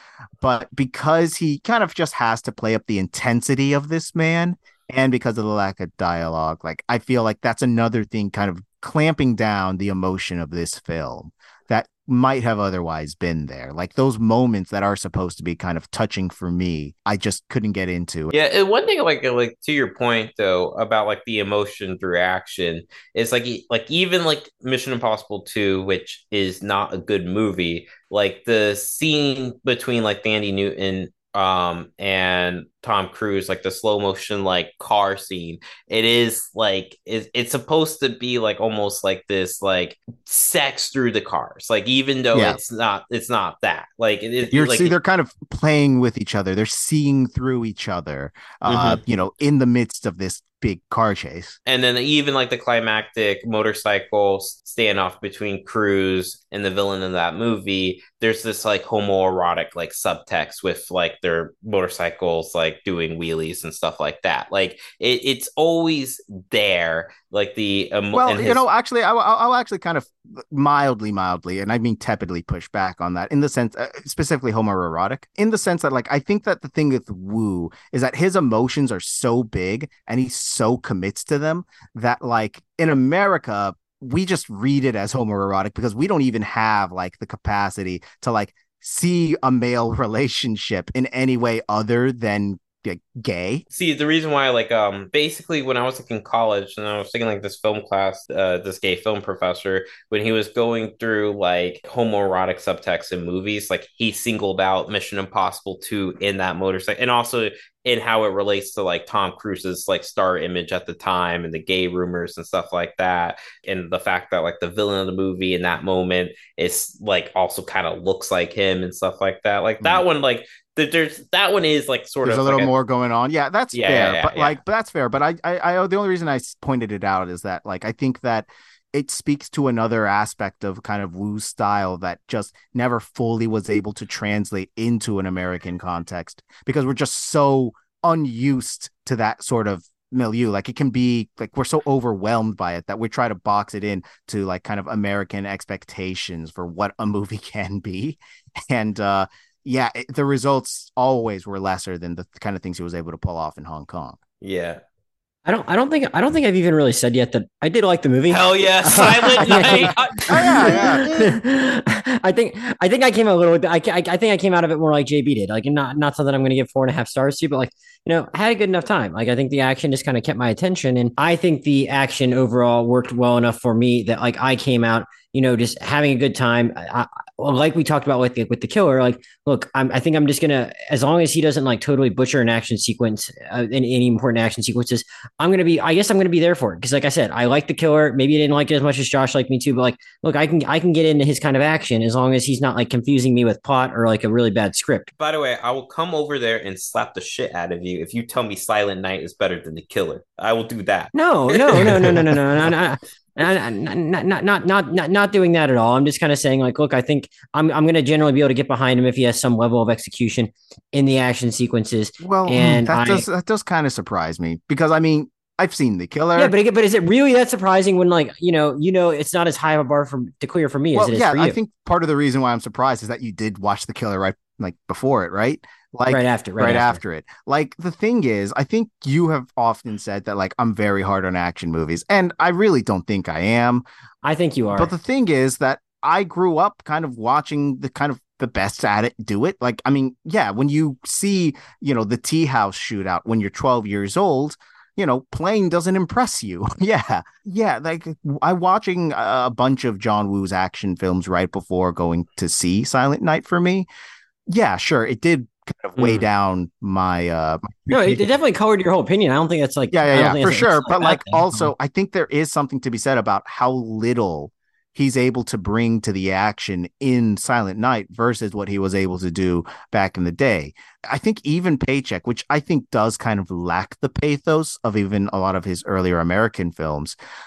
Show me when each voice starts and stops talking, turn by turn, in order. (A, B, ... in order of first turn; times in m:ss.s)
0:00.4-0:18.3 A
0:18.3-0:44.9 B
0:44.5-0:51.6 A
0:48.6-0:49.0 B
0:51.6-1:08.6 B
1:08.1-1:33.6 A
1:33.7-2:02.7 B
2:02.2-2:34.2 A
2:03.7-2:04.6 B
2:34.4-2:34.8 B
2:35.4-3:15.1 C
2:38.3-2:41.0 B
2:39.3-2:41.4 A
3:15.2-3:22.3 B
3:21.1-3:33.2 C
3:32.2-3:36.5 A
3:36.4-3:41.6 C
3:40.9-3:53.8 A
3:46.1-3:47.0 C
3:54.2-3:54.9 C
3:54.7-4:13.9 A
4:14.5-4:18.3 A
4:17.9-4:21.7 C
4:19.9-4:37.2 A